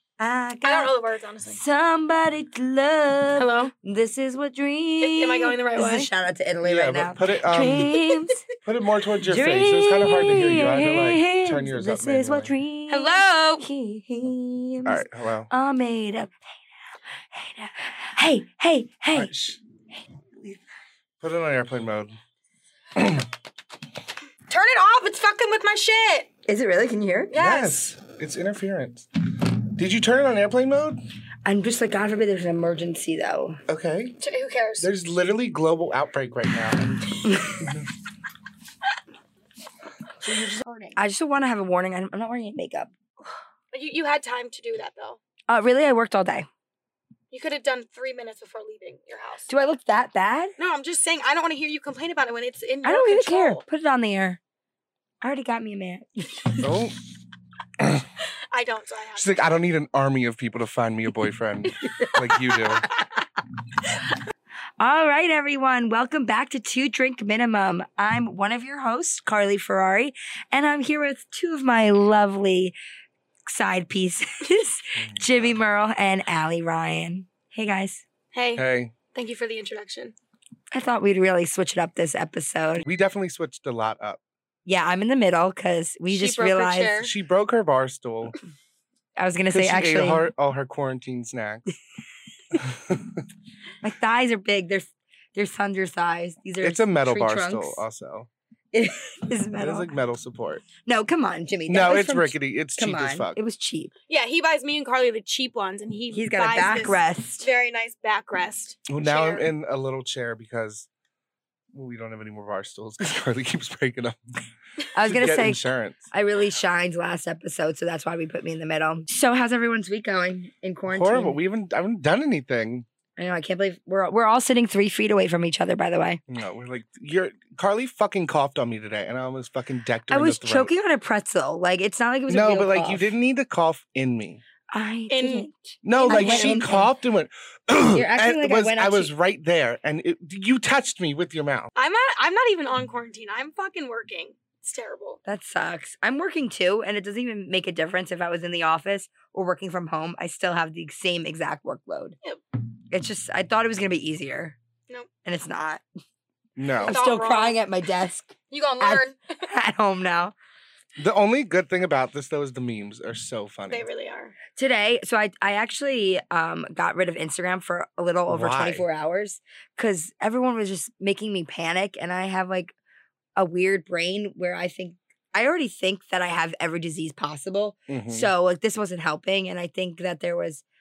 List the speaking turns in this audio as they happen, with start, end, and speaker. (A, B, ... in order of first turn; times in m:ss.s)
0:00.2-0:00.9 A
0:00.6-0:01.6 B
0:01.4-0:08.4 A
0:03.4-0:03.7 B
0:05.0-0:06.1 B
0:06.6-0:08.0 C
0:08.6-0:12.5 C
0:09.3-0:16.4 A
0:12.9-0:13.6 B
0:14.8-0:15.5 C
0:17.3-0:19.3 A
0:19.1-0:19.6 C
0:21.2-0:22.2 C
0:23.0-0:23.3 C
0:24.5-0:26.3 B
0:26.5-0:27.3 A
0:27.3-0:27.9 B
0:27.4-0:31.0 C
0:31.4-0:33.6 A
0:33.7-0:34.2 C
0:34.2-0:34.9 B
0:34.8-0:37.9 C
0:37.2-0:37.7 A
0:40.2-0:40.6 C
0:40.9-0:42.9 A
0:43.7-0:45.2 B
0:45.5-0:46.5 A
0:47.3-0:49.5 B
0:49.5-0:50.5 A
0:50.6-0:53.6 B
0:52.8-0:54.4 A
0:55.2-0:56.7 A
0:56.6-0:57.0 C
0:57.8-0:58.1 C
0:58.5-0:59.4 B
0:59.2-1:02.8 C
1:04.8-1:12.8 A
1:13.4-1:18.0 A
1:15.0-1:15.4 C
1:18.3-1:20.1 B
1:18.6-1:18.9 C
1:20.7-1:22.8 A
1:22.8-1:24.2 C
1:24.6-1:26.9 A
1:26.1-1:27.1 B
1:27.0-1:28.3 C
1:29.2-1:30.2 A
1:29.5-1:31.6 C
1:32.5-1:33.2 C
1:33.8-1:37.8 A
1:36.6-1:38.3 C
1:38.7-1:39.9 A
1:39.6-1:40.6 C
1:40.8-1:43.9 A
1:41.7-1:43.4 C
1:44.1-1:49.5 B
1:46.1-1:47.5 A
1:48.9-1:50.9 C
1:51.7-1:54.2 C
1:54.9-2:01.4 A
1:55.0-1:56.1 C
2:00.9-2:02.8 C
2:03.2-2:06.2 A
2:06.3-2:10.7 C
2:10.1-2:13.1 A
2:12.3-2:14.4 C
2:14.7-2:16.9 A
2:15.1-2:15.5 B
2:15.8-2:21.7 C
2:16.0-2:16.6 B
2:17.9-2:19.1 A
2:21.8-2:25.2 B
2:25.2-2:32.2 A
2:32.9-2:34.6 A
2:35.2-2:35.8 A
2:36.6-2:37.0 C
2:36.8-2:37.6 B
2:36.8-2:40.3 A
2:38.5-2:39.4 B
2:41.0-2:43.8 C
2:43.7-2:44.4 B
2:44.5-2:52.7 A
2:48.3-2:48.8 C
2:53.4-3:00.6 A
2:57.9-2:58.3 C